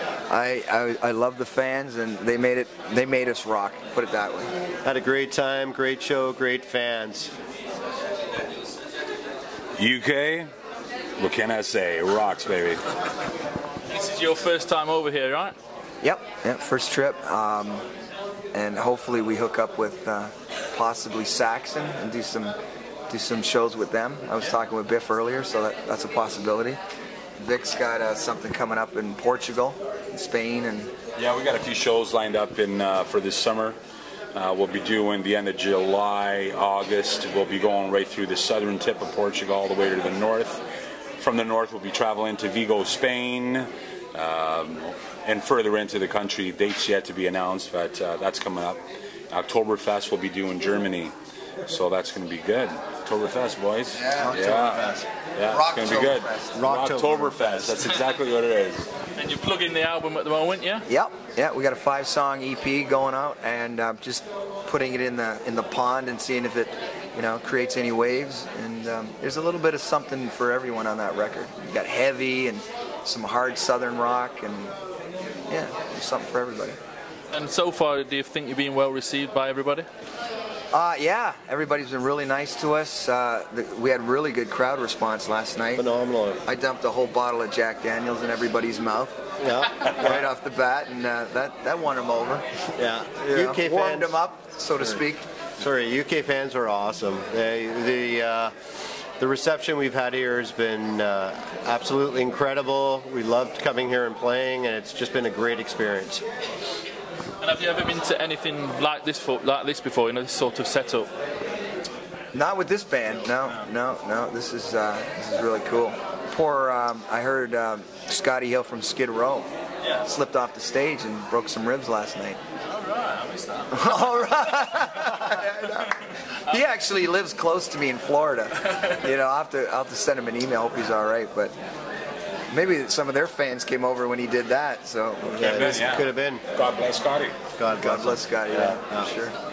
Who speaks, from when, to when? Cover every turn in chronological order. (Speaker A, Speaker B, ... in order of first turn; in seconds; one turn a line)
Speaker A: 0.3-4.5
Speaker B: 4.8-7.3
Speaker C: 9.8-10.5
Speaker C: 11.2-12.8
Speaker D: 13.9-15.6
Speaker A: 16.0-17.8
Speaker A: 18.5-22.6
Speaker A: 23.1-26.8
Speaker A: 27.4-30.9
Speaker C: 31.1-33.8
Speaker C: 34.3-40.6
Speaker C: 41.2-51.1
Speaker C: 51.6-58.9
Speaker A: 53.9-54.5
Speaker B: 54.1-55.1
Speaker A: 55.4-56.6
Speaker B: 56.5-57.8
Speaker D: 59.1-60.9
Speaker A: 60.9-74.7
Speaker A: 75.5-76.8
Speaker D: 77.3-79.9
Speaker A: 80.7-85.8
Speaker B: 85.8-86.4
Speaker A: 86.4-89.2
Speaker B: 89.4-90.2
Speaker A: 89.9-92.5
Speaker B: 92.8-94.1
Speaker A: 93.2-95.2
Speaker B: 95.6-98.5
Speaker B: 99.2-106.2
Speaker D: 107.4-111.1
Speaker A: 112.3-119.5
Speaker A: 120.0-122.4
Speaker D: 122.7-125.2
Speaker A: 123.7-131.5
Speaker A: 132.5-135.8
Speaker B: 135.2-136.4
Speaker C: 135.4-137.4
Speaker B: 137.5-139.1
Speaker A: 137.8-139.3